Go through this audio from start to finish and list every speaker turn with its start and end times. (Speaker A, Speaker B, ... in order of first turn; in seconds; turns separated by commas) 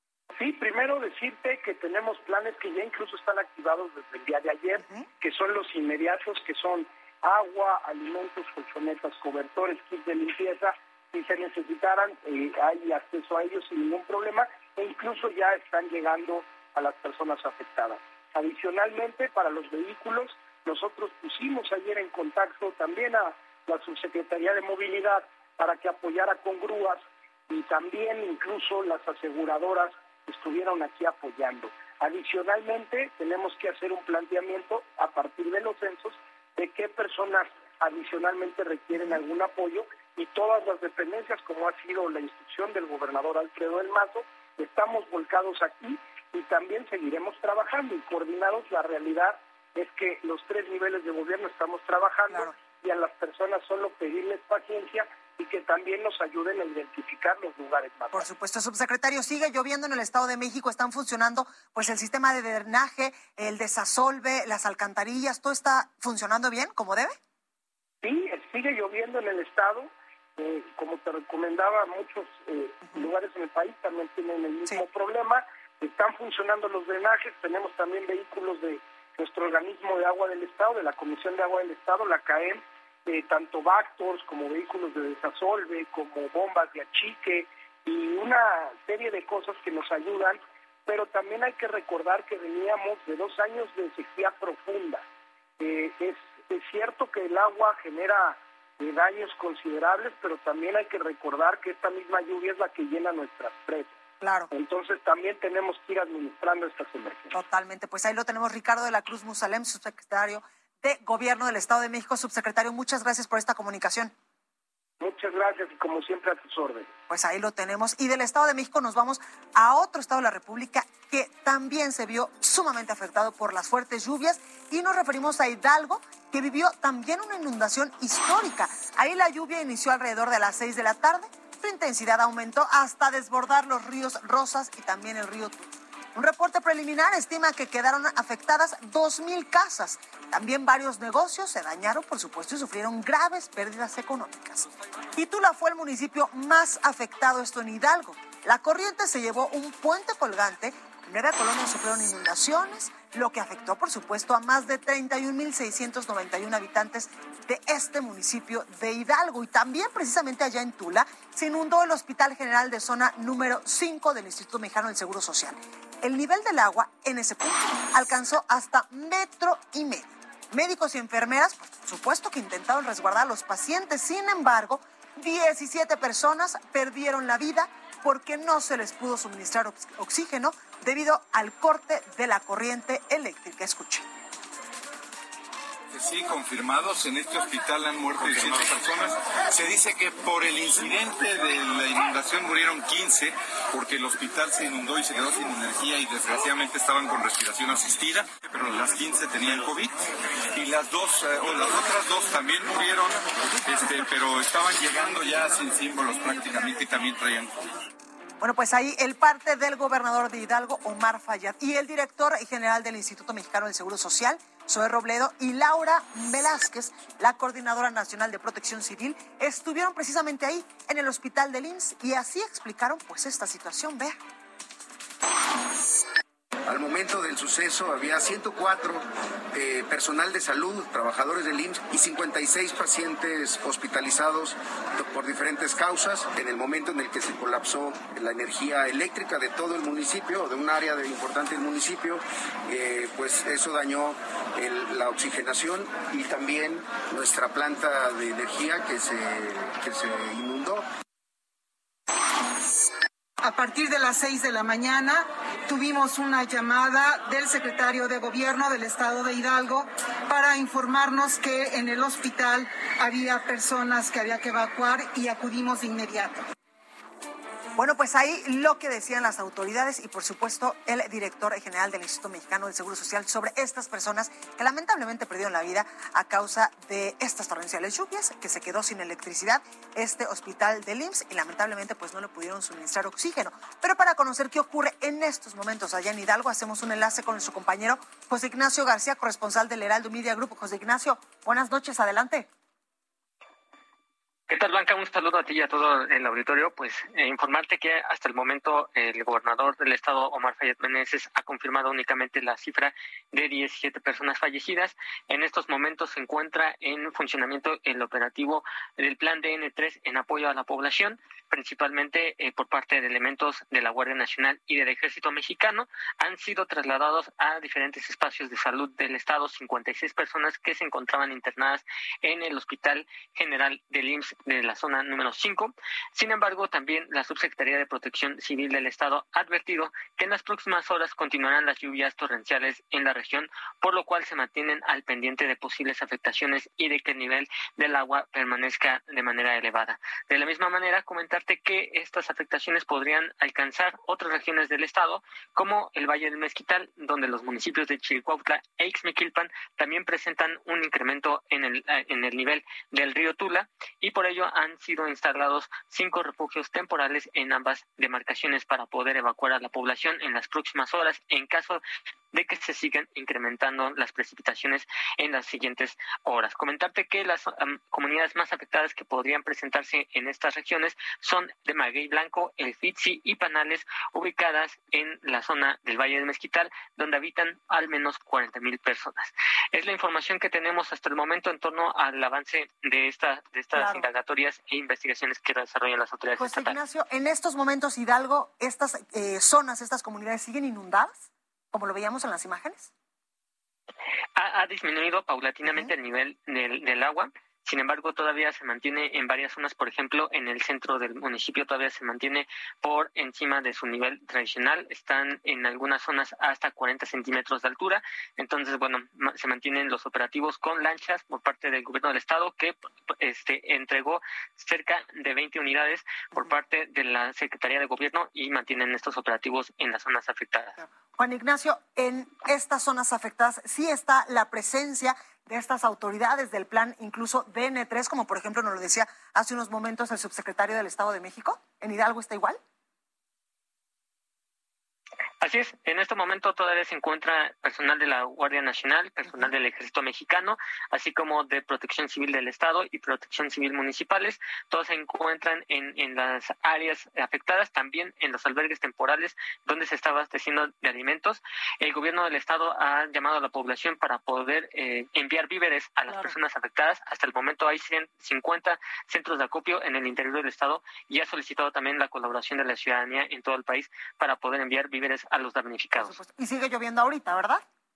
Speaker A: 0.4-58.2, Speaker B: 58.1-67.2, Speaker A: 68.0-95.0, Speaker A: 95.6-104.0, Speaker B: 104.2-104.5, Speaker A: 104.5-107.4, Speaker B: 107.3-114.1, Speaker A: 115.0-116.9, Speaker B: 117.1-184.0, Speaker C: 185.9-199.9, Speaker C: 200.5-207.7, Speaker B: 208.4-224.2, Speaker D: 226.7-250.8, Speaker E: 253.4-266.4, Speaker B: 267.8-292.5, Speaker F: 294.5-386.8, Speaker B: 383.7-384.1, Speaker B: 386.4-392.9, Speaker F: 394.4-420.8, Speaker B: 395.6-395.9, Speaker B: 420.8-432.6, Speaker F: 435.4-466.2, Speaker B: 439.3-439.5, Speaker B: 456.1-456.4, Speaker B: 465.9-467.6